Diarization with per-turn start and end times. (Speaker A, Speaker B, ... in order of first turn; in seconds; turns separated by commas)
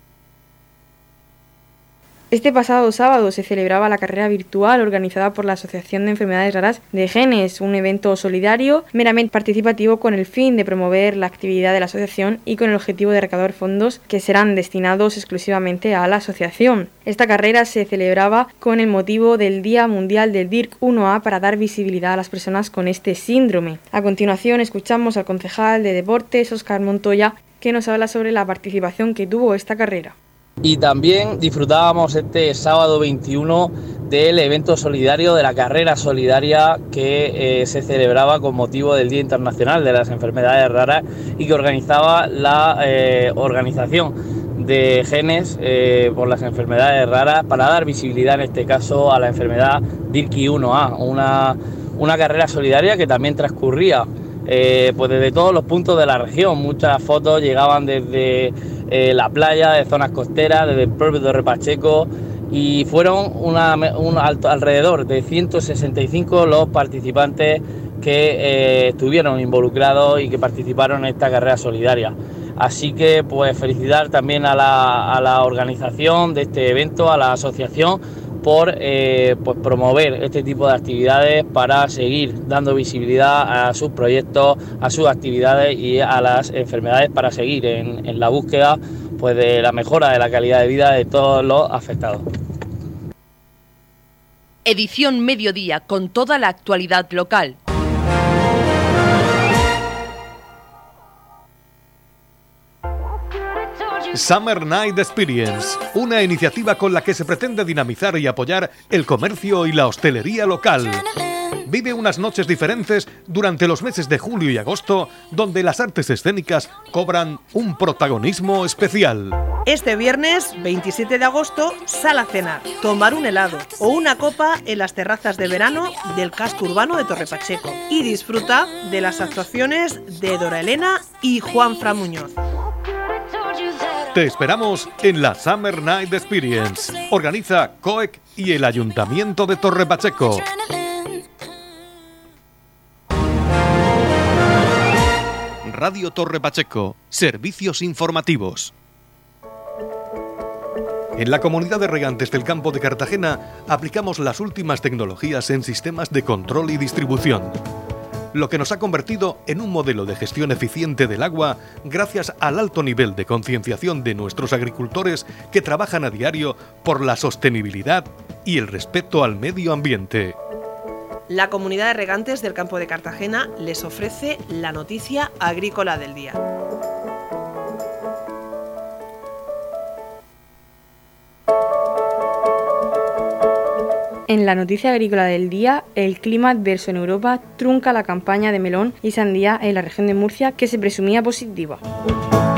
Speaker A: 2.3-30.2, Speaker B: 30.6-92.2, Speaker C: 94.7-97.6, Speaker D: 104.1-111.1, Speaker D: 111.6-119.4, Speaker E: 119.7-132.3, Speaker D: 134.1-140.5, Speaker D: 145.6-148.7, Speaker D: 151.2-157.6, Speaker D: 158.3-170.4, Speaker E: 171.3-176.4, Speaker A: 184.3-191.8